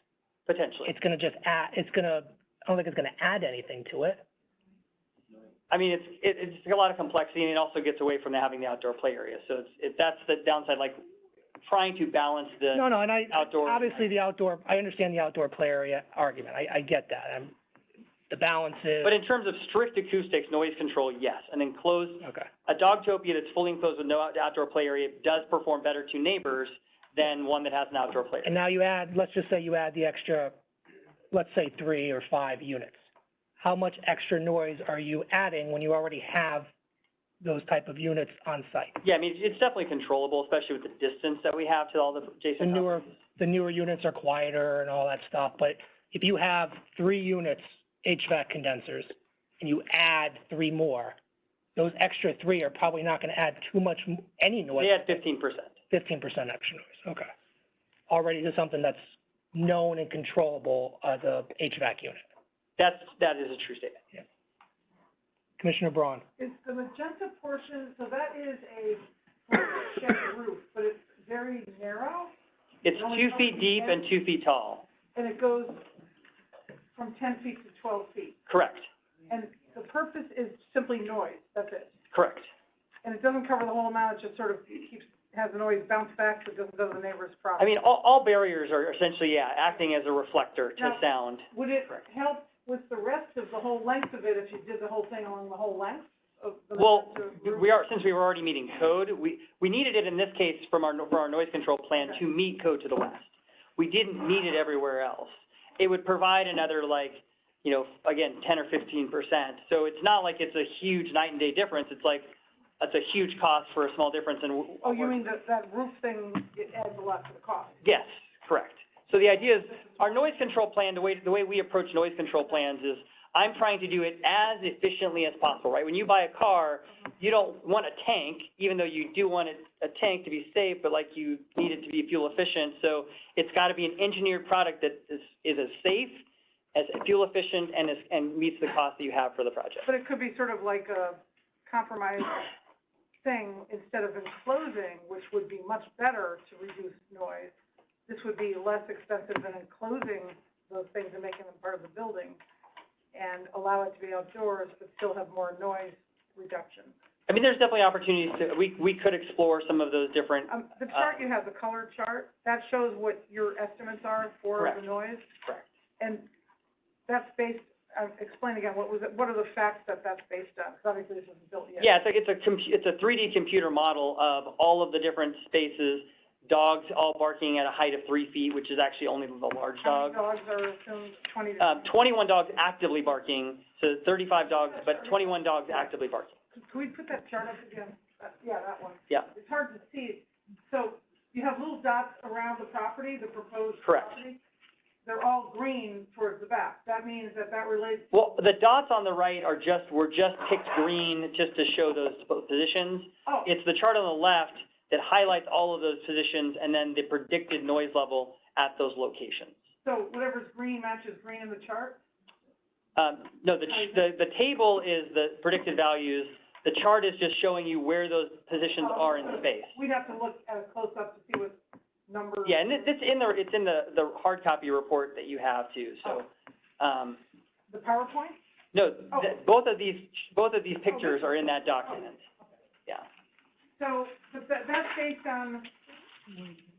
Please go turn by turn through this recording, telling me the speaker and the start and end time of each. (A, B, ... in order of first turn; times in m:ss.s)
0:00.5-0:00.9 A
0:00.8-0:04.2 B
0:05.7-0:11.0 A
0:11.6-0:14.1 A
0:12.7-0:17.6 B
0:18.3-0:19.2 B
0:19.0-0:28.5 A
0:22.2-0:22.5 B
0:28.4-0:30.6 B
0:31.3-0:33.0 B
0:33.6-0:36.7 B
0:37.4-0:39.0 B
0:39.0-0:43.2 A
0:42.6-0:51.2 B
0:51.8-0:55.2 B
0:54.8-0:55.7 A
0:55.9-0:57.3 B
0:58.1-1:02.2 B
1:02.8-1:04.0 A
1:05.6-1:06.2 B
1:06.4-1:12.3 C
1:12.8-1:14.8 A
1:12.9-1:14.0 C
1:15.1-1:15.8 C
1:16.9-1:18.5 C
1:18.5-1:18.9 A
1:19.3-1:22.0 C
1:22.1-1:22.5 A
1:23.0-1:27.7 C
1:27.6-1:31.5 A
1:30.8-1:37.7 C
1:36.8-1:55.2 A
1:54.8-1:57.8 C
1:57.8-2:19.9 A
1:59.2-2:00.3 C
2:19.8-2:22.5 C
2:23.2-2:27.5 C
2:28.1-2:32.4 C
2:33.1-2:36.9 C
2:37.3-2:41.2 A
2:40.5-2:45.3 C
2:46.0-2:46.3 C
2:47.1-2:51.9 C
2:51.8-3:00.2 A
2:59.8-3:02.0 C
3:01.6-3:06.4 A
3:04.4-3:05.7 C
3:06.5-3:14.4 C
3:13.8-3:14.2 A
3:15.0-3:18.1 C
3:18.1-3:29.6 A
3:23.2-3:23.5 C
3:29.8-3:32.0 C
3:33.0-3:39.8 A
3:33.7-3:34.1 C
3:38.8-3:42.9 C
3:42.4-3:47.2 A
3:47.7-3:48.4 C
3:48.7-3:52.2 A
3:50.9-3:51.4 C
3:53.8-3:55.7 C